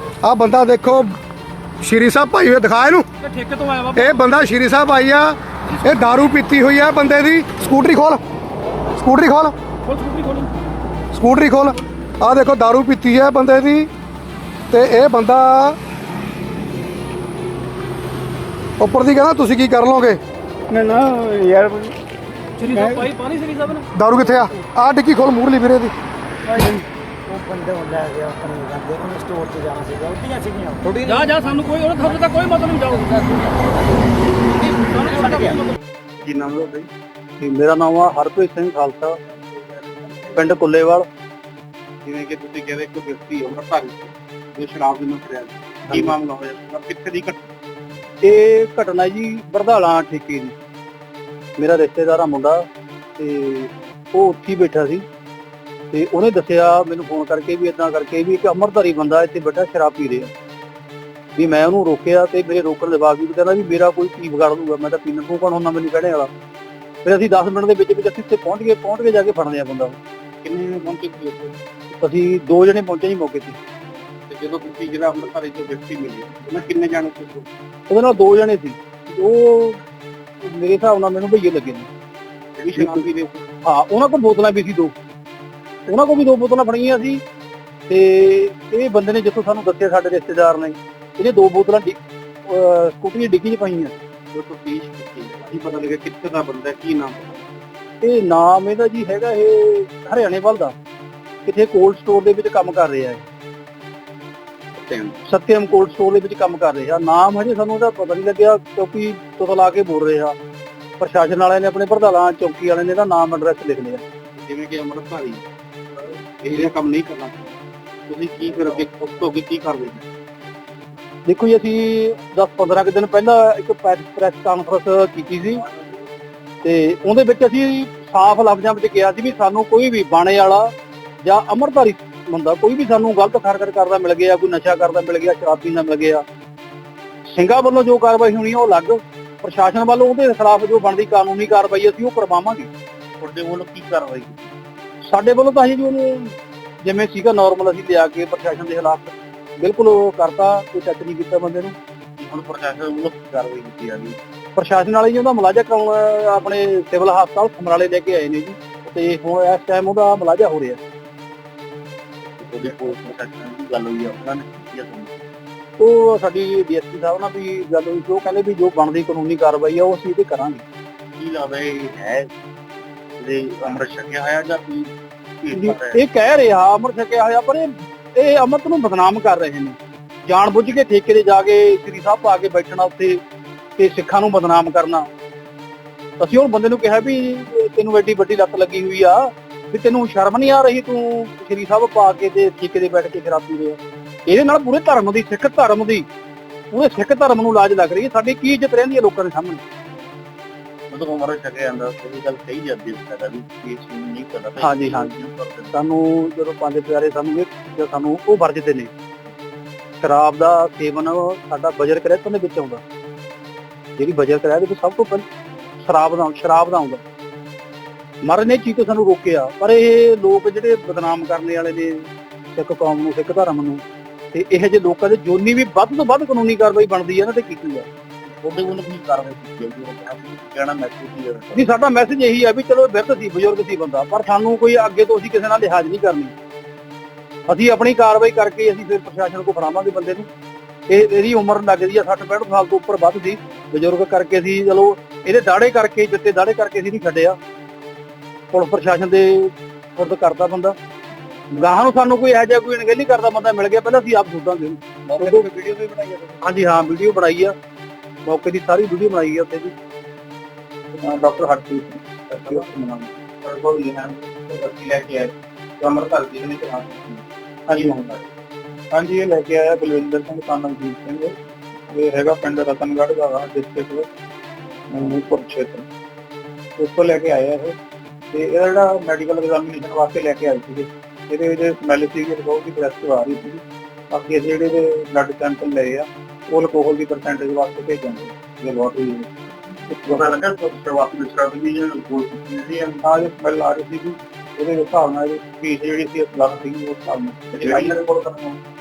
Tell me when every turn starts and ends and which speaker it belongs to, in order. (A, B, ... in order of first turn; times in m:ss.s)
0:00.2-0:01.2 A
0:01.8-0:03.1 A
0:03.3-0:04.0 B
0:03.9-0:08.2 A
0:08.9-0:09.5 A
0:09.9-0:10.5 B
0:11.1-0:13.9 A
0:14.7-0:15.8 A
0:18.8-0:20.2 A
0:20.7-0:22.0 C
0:22.6-0:23.8 B
0:22.6-0:23.1 C
0:23.9-0:25.9 A
0:26.5-0:32.4 C
0:31.1-0:33.2 B
0:33.0-0:33.6 C
0:35.0-0:35.6 C
0:35.0-0:35.6 B
0:36.2-0:36.9 D
0:37.4-0:39.2 E
0:40.3-0:41.1 E
0:42.0-0:47.4 D
0:48.2-0:50.6 E
0:51.6-0:52.6 E
0:53.2-0:55.0 E
0:55.9-1:00.3 E
1:01.4-1:06.3 E
1:07.0-1:10.0 E
1:10.4-1:11.6 D
1:12.0-1:13.6 E
1:14.3-1:17.5 D
1:17.9-1:19.8 E
1:20.4-1:21.9 E
1:22.6-1:23.4 D
1:22.8-1:23.0 E
1:23.6-1:24.9 E
1:25.9-1:27.2 E
1:27.9-1:33.9 E
1:34.3-1:37.4 D
1:38.0-1:40.7 E
1:41.4-1:43.2 E
1:44.8-1:45.2 D
1:45.3-1:50.4 E
1:51.0-1:54.0 E
1:54.4-1:55.4 D
1:56.4-1:57.3 D
1:58.1-2:00.0 D
2:01.2-2:05.6 E
2:06.6-2:10.7 E
2:11.2-2:16.2 E
2:17.3-2:22.7 E
2:23.2-2:24.5 D
2:25.0-2:31.8 E
2:32.2-2:34.2 D
2:34.6-2:40.8 E
2:42.4-2:45.1 D
2:45.8-2:50.6 E
2:51.2-2:52.3 D
2:53.2-2:54.9 D
2:55.4-2:56.0 D
2:55.5-3:03.2 E
3:03.8-3:05.1 E
3:06.2-3:16.1 E
3:16.7-3:19.6 E
3:20.9-3:25.7 D
3:24.6-3:25.1 E
3:25.7-3:28.9 E
3:30.0-3:32.8 E
3:34.0-3:35.2 E
3:35.8-3:37.0 E
3:38.2-3:47.8 E
3:48.4-3:51.6 D
3:51.5-3:56.3 E
3:57.5-4:00.3 E
4:00.9-4:07.4 E
4:08.5-4:10.8 E
4:11.5-4:15.5 E
4:15.1-4:16.4 D
4:16.4-4:17.6 E
4:18.3-4:19.7 E
4:21.0-4:28.2 F
4:28.9-4:31.3 F
4:31.9-4:34.1 F
4:34.9-4:35.9 F
4:36.8-4:37.8 F
4:38.3-4:49.3 F
4:49.9-4:50.2 F
4:50.1-4:53.0 D
4:53.0-4:58.6 F